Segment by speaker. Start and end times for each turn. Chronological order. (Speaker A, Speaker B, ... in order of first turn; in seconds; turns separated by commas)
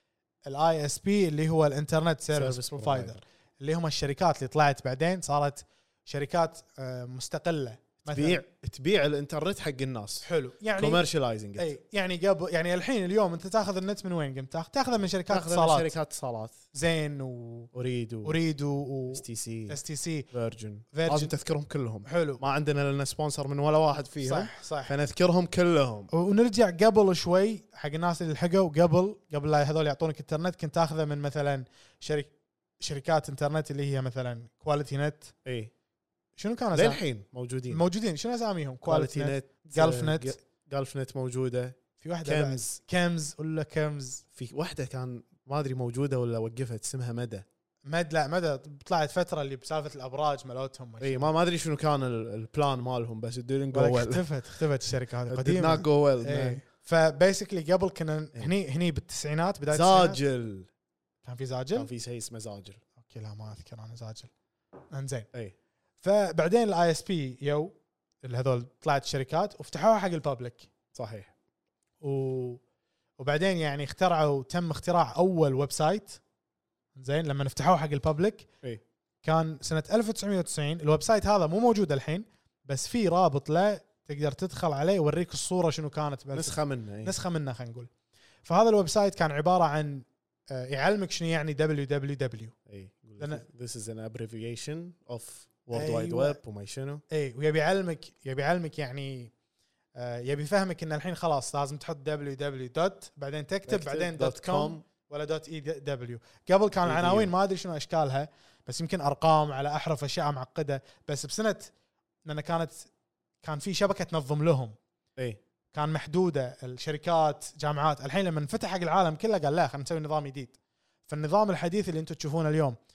Speaker A: 0.4-8.4, Speaker B: 2.3-3.2, Speaker B: 8.1-11.7, Speaker A: 10.2-11.0, Speaker A: 11.6-15.9, Speaker B: 15.3-16.5, Speaker A: 16.7-17.7, Speaker B: 17.7-18.4, Speaker A: 18.2-20.3, Speaker B: 19.1-19.8, Speaker B: 20.3-26.1, Speaker A: 20.9-21.3, Speaker A: 22.1-22.4, Speaker A: 24.2-24.9, Speaker A: 26.1-35.3, Speaker B: 35.4-35.7, Speaker A: 36.4-37.0, Speaker B: 36.7-37.8, Speaker A: 37.7-40.4, Speaker B: 38.8-42.6, Speaker A: 42.0-44.2, Speaker B: 44.3-47.5, Speaker A: 47.9-51.3, Speaker B: 51.0-54.6, Speaker A: 53.7-60.2, Speaker B: 55.3-56.6, Speaker B: 59.7-60.7, Speaker A: 61.2-61.9, Speaker B: 61.7-62.8, Speaker A: 63.0-64.3, Speaker A: 64.9-65.3, Speaker A: 66.0-70.7, Speaker B: 70.9-71.3, Speaker A: 72.0-72.6, Speaker A: 73.2-76.2, Speaker A: 77.0-78.5, Speaker A: 79.2-87.9, Speaker B: 86.3-87.1, Speaker A: 88.4-92.5, Speaker B: 92.7-97.0, Speaker A: 93.2-93.4, Speaker A: 95.7-96.4, Speaker A: 97.1-99.3, Speaker A: 100.0-111.7, Speaker B: 103.7-104.8, Speaker B: 106.8-107.3, Speaker A: 112.2-112.9, Speaker A: 113.4-114.7, Speaker A: 115.7-120.6, Speaker A: 121.1-122.8